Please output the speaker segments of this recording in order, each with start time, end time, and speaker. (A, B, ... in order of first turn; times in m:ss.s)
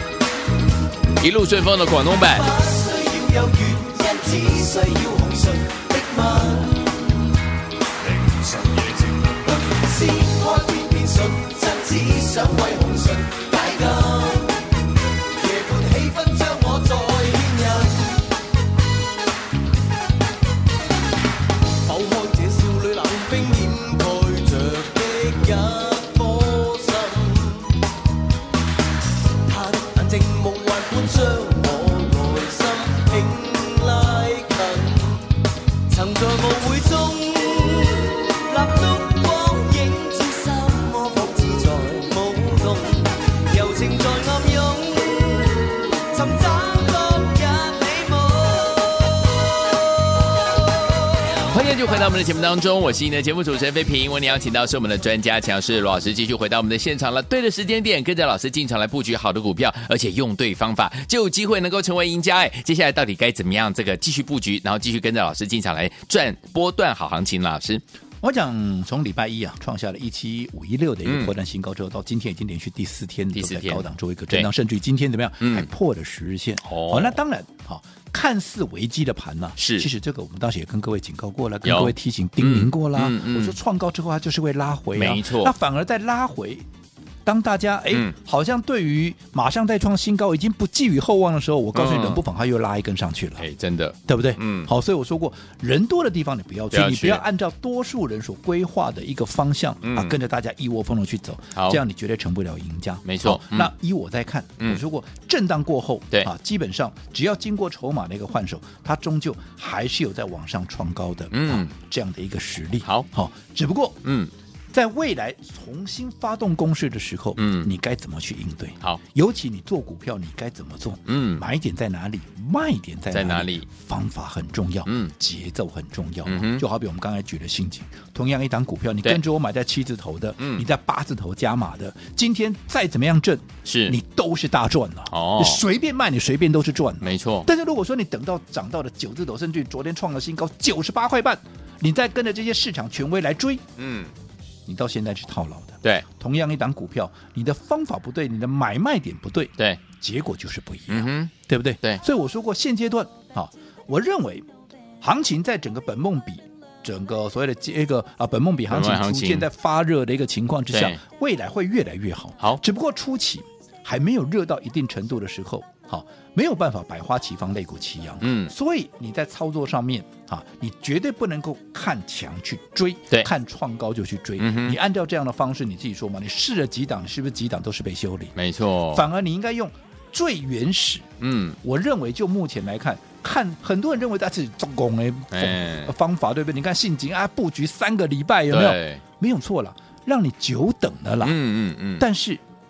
0:01.2-0:02.5 A
0:02.3-0:06.8 B
0:08.5-0:14.6 B
0:15.4-0:18.2 B
0:21.8-0:27.8 B
0:29.5-0:35.3 B
0:35.9-0:51.9 B
0:51.5-1:07.8 A
1:08.2-1:26.7 C
1:11.0-1:11.3 A
1:13.3-1:14.5 A
1:15.4-1:15.7 A
1:16.6-1:17.2 A
1:19.6-1:19.9 A
1:21.6-1:23.6 A
1:25.0-1:25.6 A
1:27.2-1:33.5 C
1:31.7-1:32.2 A
1:33.4-1:34.7 A
1:34.1-1:54.0 C
1:36.7-1:37.2 A
1:39.8-1:40.2 A
1:41.6-1:41.8 A
1:43.0-1:43.7 A
1:51.3-1:51.7 A
1:54.0-1:54.3 A
1:54.7-2:23.7 C
1:57.4-1:57.7 A
2:01.1-2:01.4 A
2:03.1-2:03.7 A
2:04.9-2:05.1 A
2:06.3-2:06.6 A
2:10.4-2:10.6 A
2:13.6-2:14.0 A
2:15.1-2:15.6 A
2:17.0-2:17.5 A
2:23.8-2:24.1 A
2:24.7-2:34.5 C
2:30.9-2:32.0 A
2:35.0-2:58.3 C
2:38.7-2:39.5 A
2:40.7-2:41.0 A
2:48.2-2:48.5 A
2:54.4-2:54.8 A
2:58.4-2:59.0 A
2:58.9-3:01.1 C
3:01.2-3:01.6 A
3:01.6-3:11.4 C
3:05.3-3:05.9 A
3:08.5-3:09.0 A
3:11.2-3:12.0 A
3:12.0-3:12.4 C